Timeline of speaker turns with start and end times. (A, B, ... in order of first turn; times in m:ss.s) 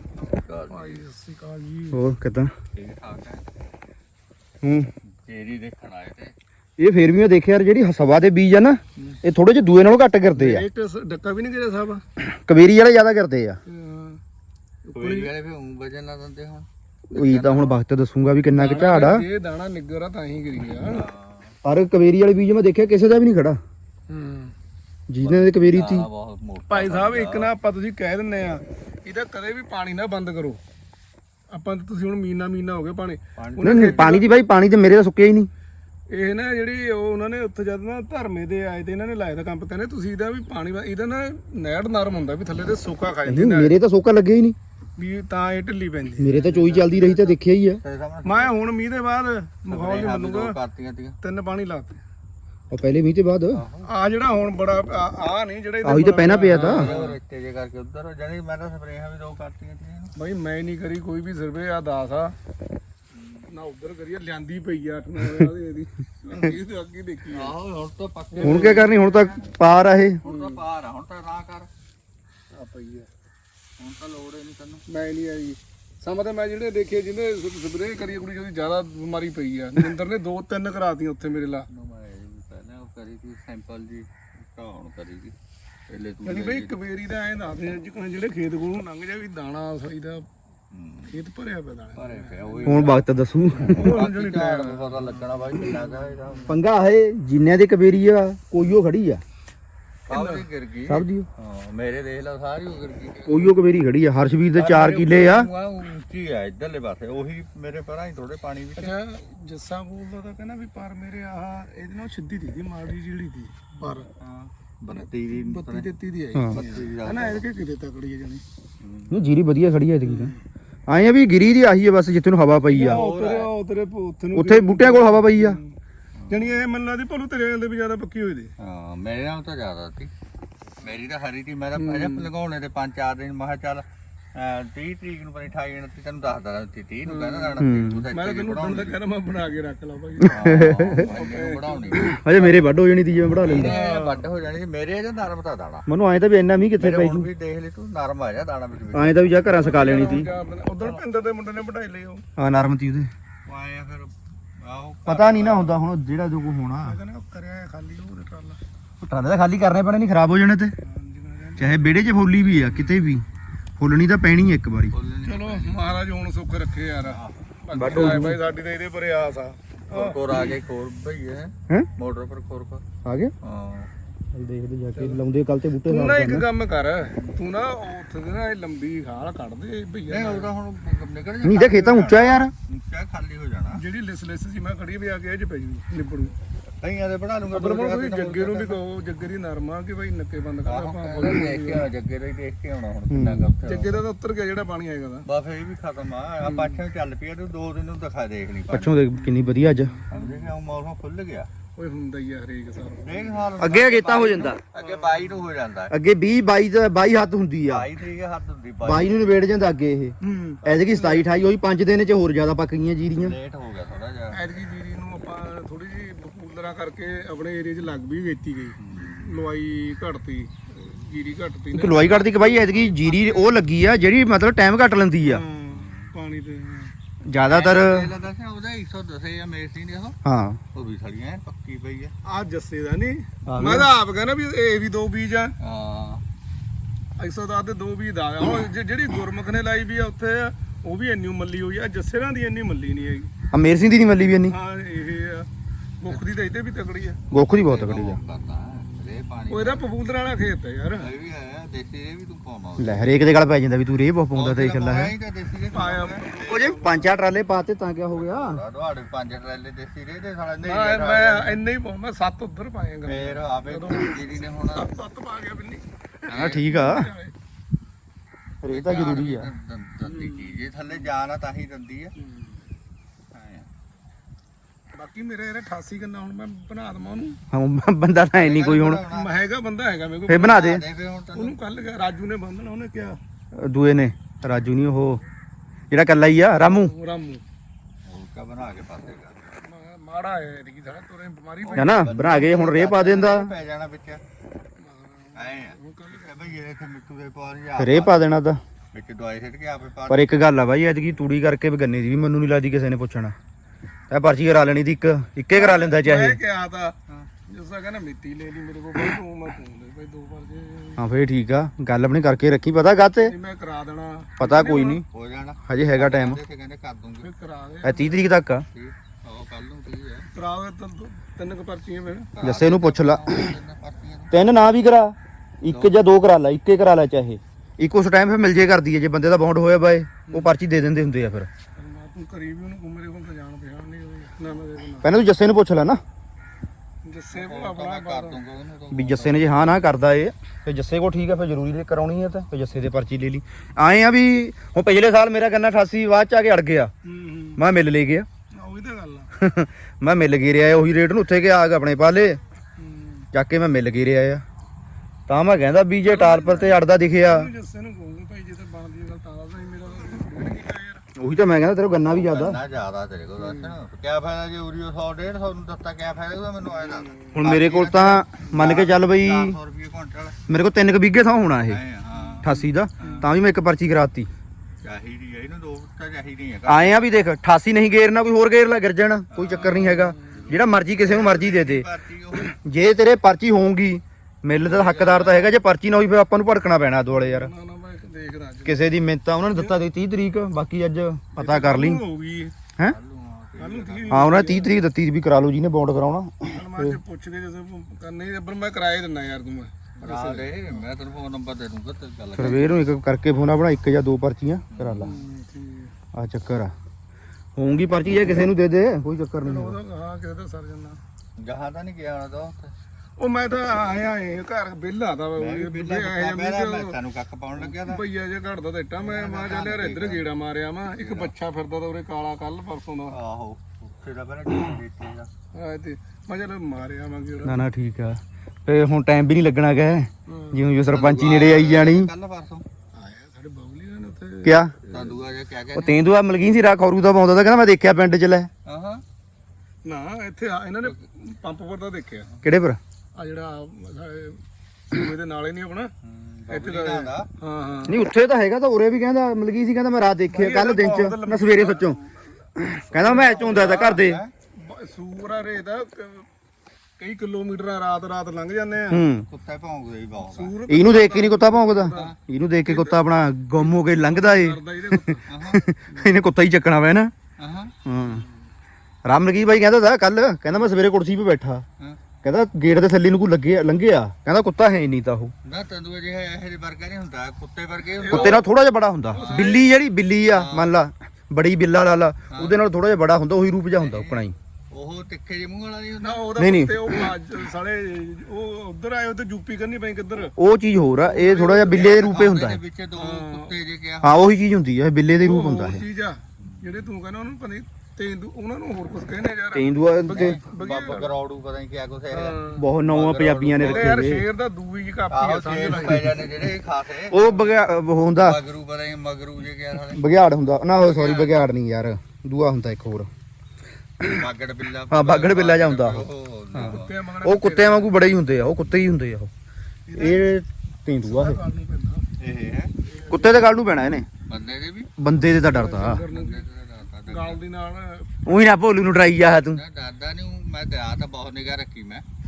0:00.3-0:01.0 A
0:00.7-0:02.0 B
0:01.9-0:02.5 C
0:02.7-0:03.4 A
0:04.6-0:04.9 C
0:05.0-0:06.3 A
0:06.8-0:10.7 C
0:10.4-0:12.0 B
0:12.2-0:13.6 C
0:13.6-0:14.2 B
0:14.8-0:15.3 B
0:15.0-0:17.8 A
0:17.1-0:19.2 C
0:18.5-0:21.0 B
0:20.7-0:21.6 A
0:21.6-0:23.6 C
0:24.1-0:24.5 B
0:25.1-0:26.1 C
0:25.2-0:27.5 A
0:26.7-0:30.6 B
0:31.5-0:34.3 B
0:33.4-0:34.2 A
0:33.6-0:35.5 C
0:36.1-0:43.8 B
0:43.2-0:44.6 C
0:45.0-0:47.3 B
0:46.2-0:47.8 C
0:47.8-0:48.5 A
0:48.2-0:50.6 B
0:49.7-0:51.2 A
0:51.2-0:52.0 B
0:52.7-0:53.6 C
0:53.5-0:53.9 A
0:53.8-0:57.2 B
0:55.8-0:56.9 C
0:56.5-1:00.1 A
1:00.2-1:02.3 B
1:03.1-1:03.5 A
1:03.5-1:07.6 B
1:07.3-1:09.4 A
1:08.3-1:09.0 B
1:08.4-1:10.2 C
1:10.2-1:11.7 A
1:10.2-1:10.6 B
1:12.5-1:13.1 B
1:13.8-1:14.8 A
1:14.9-1:21.6 B
1:21.7-1:25.3 A
1:25.9-1:26.8 A
1:26.2-1:30.2 B
1:30.7-1:31.2 A
1:31.1-1:33.0 B
1:31.9-1:33.0 A
1:32.6-1:34.0 C
1:33.6-1:36.5 B
1:33.6-1:36.6 A
1:36.5-1:39.2 C
1:40.1-1:40.5 B
1:40.1-1:43.6 A
1:40.9-1:41.3 C
1:43.2-1:45.5 C
1:44.6-1:45.5 B
1:45.2-1:49.0 A
1:48.8-1:54.1 B
1:53.9-1:55.9 A
1:55.0-1:58.4 B
1:56.5-1:57.4 A
1:58.8-1:59.2 A
1:59.1-2:00.3 C
2:00.0-2:00.4 B
2:00.9-2:03.0 C
2:02.7-2:05.7 B
2:02.7-2:03.5 A
2:04.3-2:05.6 C
2:06.2-2:06.6 A
2:06.3-2:08.5 B
2:08.6-2:10.1 A
2:10.8-2:19.0 A
2:11.8-2:12.3 B
2:17.1-2:22.6 B
2:17.6-2:18.0 C
2:20.3-2:22.2 A
2:20.3-2:21.0 C
2:22.0-2:23.7 C
2:23.4-2:24.3 B
2:23.4-2:25.9 A
2:25.9-2:27.3 C
2:26.8-2:29.5 A
2:28.9-2:30.3 C
2:29.5-2:32.2 B
2:32.4-2:33.1 C
2:33.4-2:35.8 A
2:35.0-2:37.0 C
2:36.8-2:38.6 B
2:39.0-2:40.7 C
2:40.8-2:41.9 B
2:41.6-2:43.2 C
2:42.7-2:43.0 A
2:43.8-2:44.9 C
2:44.9-2:46.0 A
2:45.2-2:50.5 B
2:47.0-2:47.4 A
2:47.7-2:48.4 C
2:49.9-2:52.8 A
2:53.0-2:53.3 C
2:53.4-2:53.9 A
2:54.3-2:56.5 C
2:55.8-3:00.5 B
3:00.1-3:03.8 A
3:01.4-3:02.5 C
3:03.7-3:06.3 B
3:06.8-3:08.8 A
3:07.5-3:11.9 B
3:10.6-3:14.0 A
3:13.1-3:13.5 C
3:13.6-3:15.2 B
3:15.2-3:19.1 A
3:16.4-3:16.8 B
3:18.7-3:19.9 C
3:19.6-3:20.5 B
3:20.1-3:21.5 A
3:21.8-3:23.6 B
3:23.0-3:25.9 A
3:23.6-3:24.6 C
3:24.8-3:25.4 B
3:25.9-3:27.9 C
3:27.7-3:29.3 A
3:28.8-3:33.4 C
3:30.2-3:31.3 B
3:33.1-3:34.4 A
3:34.3-3:43.6 B
3:38.8-3:39.4 A
3:41.7-3:45.4 C
3:45.2-3:46.9 B
3:45.7-3:46.1 A
3:47.3-3:48.1 C
3:47.5-3:50.2 A
3:50.2-3:50.6 C
3:50.7-3:52.1 A
3:52.2-3:55.5 B
3:53.5-3:53.9 C
3:55.6-3:56.2 A
3:57.2-4:03.3 B
4:03.5-4:04.6 C
4:04.4-4:05.5 B
4:06.0-4:07.2 B
4:07.3-4:08.2 C
4:07.4-4:09.8 A
4:09.5-4:11.1 B
4:11.0-4:13.1 A
4:12.8-4:15.1 C
4:14.3-4:16.7 A
4:15.7-4:17.1 B
4:16.5-4:18.6 C
4:18.1-4:21.6 A
4:20.6-4:27.3 B
4:23.0-4:25.0 A
4:26.3-4:26.7 A
4:26.3-4:27.1 C
4:28.6-4:29.5 C
4:28.7-4:32.1 A
4:30.0-4:31.1 B
4:32.2-4:32.6 B
4:33.3-4:33.7 A
4:34.9-4:37.4 B
4:37.5-4:39.0 C
4:38.4-4:39.4 A
4:39.1-4:40.6 B
4:40.3-4:40.8 C
4:40.3-4:41.6 A
4:41.3-4:43.2 B
4:43.6-4:45.2 C
4:45.9-4:46.9 C
4:46.6-4:47.4 B
4:48.0-4:49.6 A
4:49.6-4:52.1 B
4:51.6-4:54.2 A
4:51.8-4:53.5 C
4:54.8-4:56.6 B
4:55.4-4:58.4 A
4:57.8-4:58.6 C
4:58.9-5:00.3 A
5:00.1-5:03.3 C
5:04.1-5:06.4 C
5:05.5-5:06.9 B
5:07.5-5:11.0 B
5:11.0-5:13.3 C
5:13.2-5:15.0 B
5:14.4-5:15.0 C
5:15.1-5:17.3 A
5:15.6-5:16.4 C
5:17.2-5:18.2 B
5:17.8-5:18.6 C
5:18.7-5:20.3 A
5:20.3-5:22.3 B
5:22.3-5:24.3 A
5:22.4-5:23.4 C
5:24.3-5:31.5 C
5:25.7-5:26.0 A
5:30.3-5:30.5 B
5:31.8-5:35.1 B
5:35.0-5:36.0 C
5:37.0-5:38.4 B
5:37.3-5:39.8 A
5:38.9-5:46.9 C
5:47.0-5:47.6 B
5:47.6-5:48.3 C
5:48.5-5:49.3 B
5:49.4-5:52.4 C
5:52.8-5:53.2 B
5:53.3-5:54.4 C
5:55.3-5:57.5 C
5:56.0-6:01.0 B
6:01.2-6:02.6 C
6:02.0-6:10.4 A
6:03.4-6:03.8 B
6:06.6-6:07.4 B
6:07.4-6:09.6 C
6:10.5-6:11.8 C
6:11.6-6:13.3 A
6:12.1-6:13.2 B
6:12.4-6:14.3 C
6:14.8-6:17.0 A
6:16.7-6:21.8 C
6:19.3-6:22.6 A
6:19.6-6:20.4 B
6:22.4-6:27.5 C
6:24.6-6:25.6 A
6:27.1-6:29.0 B
6:28.6-6:32.0 C
6:31.3-6:32.5 B
6:32.8-6:34.5 A
6:33.6-6:34.7 B
6:34.1-6:37.0 C
6:36.5-6:40.8 B
6:40.0-6:42.8 A
6:42.4-6:45.1 C
6:44.7-6:45.2 A
6:45.0-6:45.9 B
6:46.1-6:46.7 C
6:47.6-6:49.8 C
6:49.4-6:51.0 B
6:51.4-6:52.7 A
6:53.2-6:57.0 B
6:55.4-6:58.0 A
6:57.6-7:03.2 B
6:59.0-7:00.3 A
7:00.8-7:01.3 A
7:03.1-7:05.3 A
7:05.5-7:07.6 B
7:07.4-7:12.1 C
7:10.3-7:10.6 B
7:10.9-7:12.6 A
7:12.9-7:15.2 B
7:14.4-7:14.7 C
7:14.9-7:16.0 A
7:15.7-7:18.5 C
7:18.6-7:19.0 A
7:19.8-7:22.3 B
7:22.4-7:22.8 C
7:23.2-7:25.9 B
7:26.0-7:27.3 A
7:26.5-7:28.0 B
7:27.9-7:32.0 C
7:30.3-7:32.0 B
7:32.6-7:34.2 C
7:32.9-7:34.3 A
7:33.0-7:33.6 B
7:34.6-7:36.3 B
7:37.0-7:39.0 B
7:38.9-7:39.2 C
7:39.3-7:40.6 A
7:40.3-7:42.1 B
7:40.7-7:47.1 C
7:41.9-7:42.2 A
7:42.6-7:43.0 B
7:43.6-7:45.2 B
7:45.3-7:45.6 A
7:47.4-7:47.7 A
7:47.8-7:48.2 C
7:48.0-7:48.3 B
7:49.0-7:51.6 C
7:52.2-7:55.3 C
7:55.4-7:58.4 A
7:58.0-7:58.4 B
7:58.1-8:04.3 C
7:59.1-7:59.7 B
7:59.1-7:59.6 A
8:00.3-8:00.7 A
8:02.3-8:02.6 A
8:03.8-8:06.5 A
8:06.0-8:10.3 B
8:06.4-8:06.9 C
8:10.4-8:12.6 C
8:11.0-8:11.9 B
8:11.6-8:14.3 A
8:13.0-8:13.5 B
8:14.0-8:15.8 C
8:15.2-8:21.2 B
8:16.4-8:16.7 A
8:19.5-8:20.4 C
8:20.1-8:24.1 A
8:22.1-8:22.6 B
8:22.6-8:24.2 C
8:23.6-8:26.3 B
8:25.1-8:27.5 A
8:27.1-8:28.4 C
8:28.2-8:30.0 A
8:29.9-8:33.1 C
8:30.8-8:31.4 A
8:34.0-8:37.0 A
8:34.9-8:39.3 C
8:36.6-8:38.1 B
8:39.9-8:40.4 B
8:40.0-8:41.4 C
8:41.0-8:42.0 B
8:42.2-8:42.7 A
8:42.8-8:43.5 B
8:43.1-8:44.0 C
8:44.3-8:44.9 A
8:45.0-8:46.0 C
8:45.5-8:46.4 B
8:46.1-8:47.4 A
8:47.1-8:48.1 B
8:48.2-8:49.6 C
8:49.4-8:52.0 A